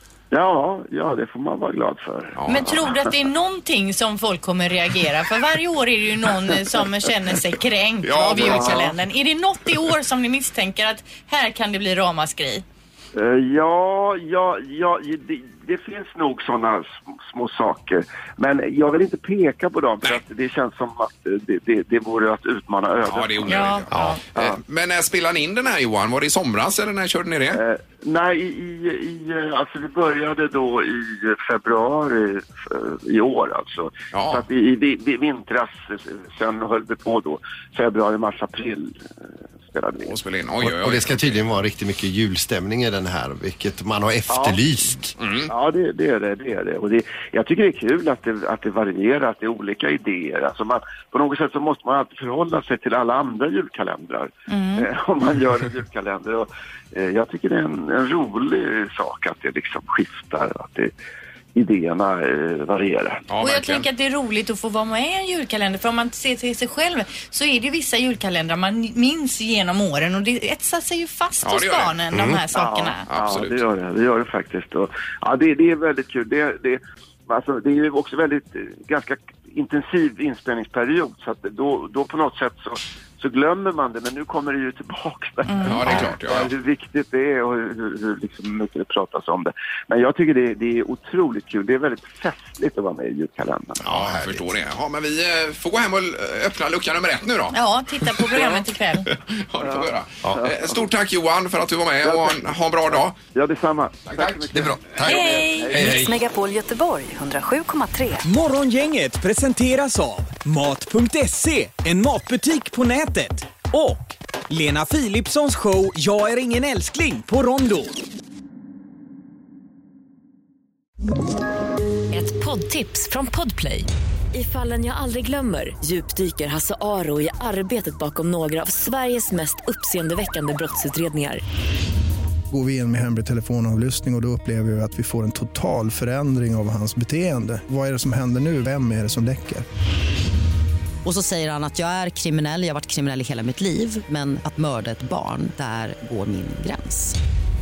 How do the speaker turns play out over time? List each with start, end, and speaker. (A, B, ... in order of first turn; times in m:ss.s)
0:00.3-0:02.9 A
0:02.4-0:02.8 B
0:02.5-0:12.6 C
0:08.0-0:09.0 B
0:08.4-0:08.7 A
0:13.1-0:23.8 A
0:23.0-0:27.6 B
0:23.5-0:24.2 C
0:24.3-0:24.6 A
0:27.5-0:39.1 A
0:34.1-0:34.4 B
0:39.6-0:40.2 A
0:40.0-0:41.2 B
0:40.6-0:45.1 D
0:44.3-0:44.6 A
0:45.2-0:45.5 B
0:45.5-1:00.9 A
0:54.5-0:54.9 C
1:01.5-1:03.2 A
1:03.3-1:03.8 B
1:03.4-1:13.1 C
1:11.4-1:11.9 B
1:12.1-1:12.4 D
1:12.5-1:33.8 A
1:13.1-1:13.6 B
1:25.4-1:25.8 C
1:25.7-1:26.5 B
1:33.8-1:34.5 D
1:33.9-1:43.2 B
1:37.5-1:39.1 C
1:39.6-1:40.8 A
1:42.0-1:46.0 A
1:44.0-1:44.5 B
1:44.5-1:46.0 D
1:45.0-1:48.2 E
1:45.7-1:46.1 B
1:48.2-1:58.0 F
2:02.1-2:11.4 E
2:12.5-2:19.6 G
2:21.0-2:27.2 H